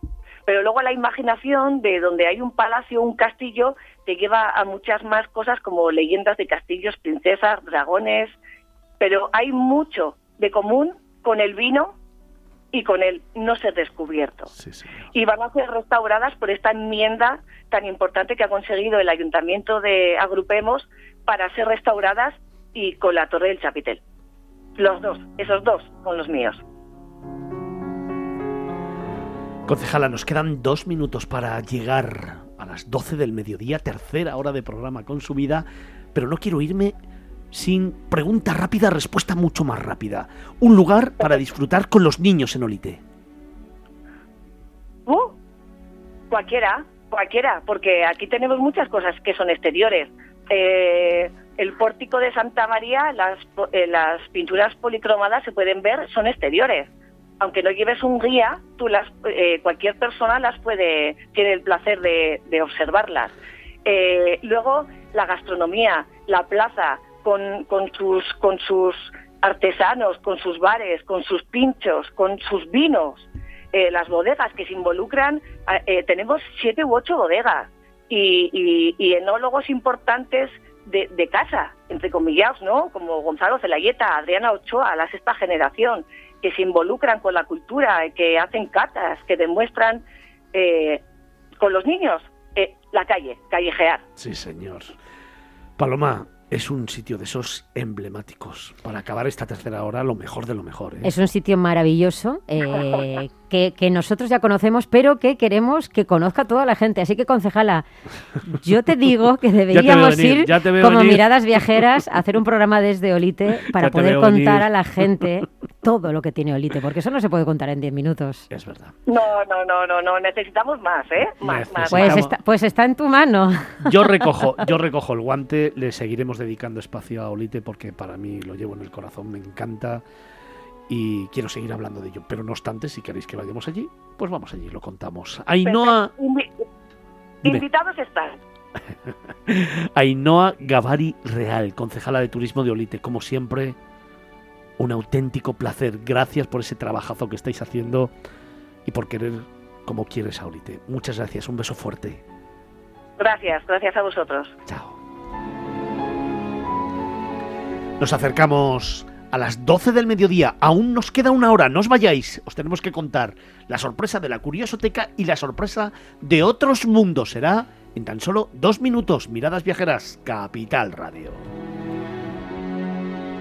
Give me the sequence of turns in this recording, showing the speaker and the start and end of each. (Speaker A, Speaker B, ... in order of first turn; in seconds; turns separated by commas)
Speaker A: 0.5-8.4, Speaker A: 9.0-11.9, Speaker A: 12.7-14.5, Speaker B: 14.6-15.1, Speaker A: 15.1-24.0, Speaker A: 24.8-26.6, Speaker B: 29.7-37.0, Speaker B: 37.5-43.0, Speaker A: 45.1-45.4, Speaker A: 46.3-63.3, Speaker A: 63.9-91.0, Speaker A: 91.6-94.0, Speaker B: 94.2-95.0, Speaker B: 95.8-101.1, Speaker C: 101.0-107.9, Speaker C: 108.4-118.5, Speaker B: 109.7-111.3, Speaker B: 113.7-114.7, Speaker B: 118.5-118.9, Speaker A: 119.1-122.2, Speaker B: 121.4-122.3, Speaker C: 121.9-124.3, Speaker B: 123.8-130.0, Speaker B: 130.9-136.1, Speaker A: 135.6-136.6, Speaker A: 137.4-138.4, Speaker B: 139.1-143.8, Speaker B: 144.8-148.1, Speaker B: 148.8-152.2, Speaker A: 153.2-154.6, Speaker B: 154.7-155.0, Speaker B: 158.0-171.5